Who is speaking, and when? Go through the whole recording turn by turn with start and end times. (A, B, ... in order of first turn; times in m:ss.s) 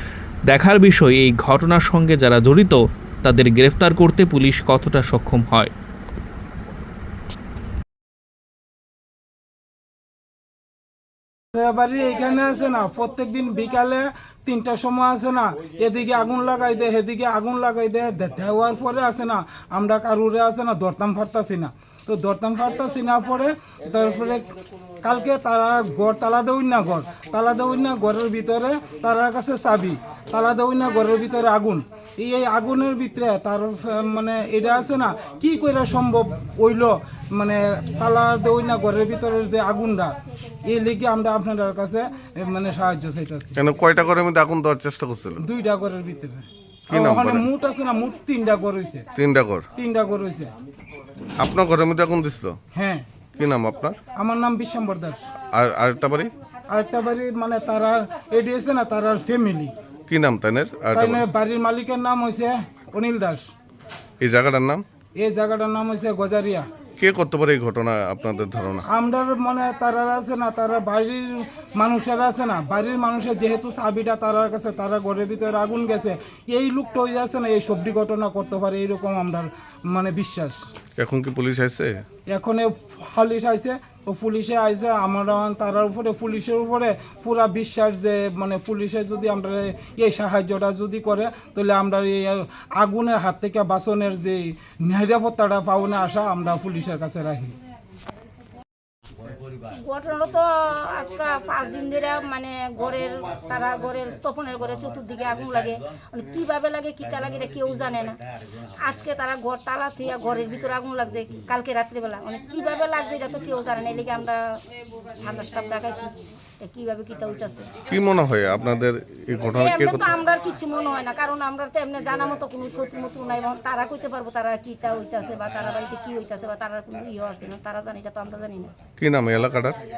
0:00.5-0:05.7 A
0:11.5-0:43.6 B
0:43.6-0:45.4 C
0:45.4-0:49.1 B
0:46.9-0:47.5 C
0:49.1-0:49.7 C
0:49.7-0:50.5 B
0:51.4-0:52.6 C
0:52.7-0:53.1 B
0:53.4-0:54.0 C
0:54.1-0:55.3 B
0:55.5-0:56.3 C
0:56.7-0:59.7 B
1:00.1-1:01.2 C
1:00.9-1:03.5 B
1:04.2-1:04.8 C
1:05.1-1:06.7 B
1:07.0-1:08.8 C
1:08.8-1:20.6 B
1:21.0-1:22.0 C
1:22.3-1:37.5 B
1:39.7-1:48.2 D
1:48.8-1:54.4 D
1:55.2-1:57.7 D
1:57.9-2:00.1 C
1:59.4-2:08.7 D
2:09.0-2:09.8 C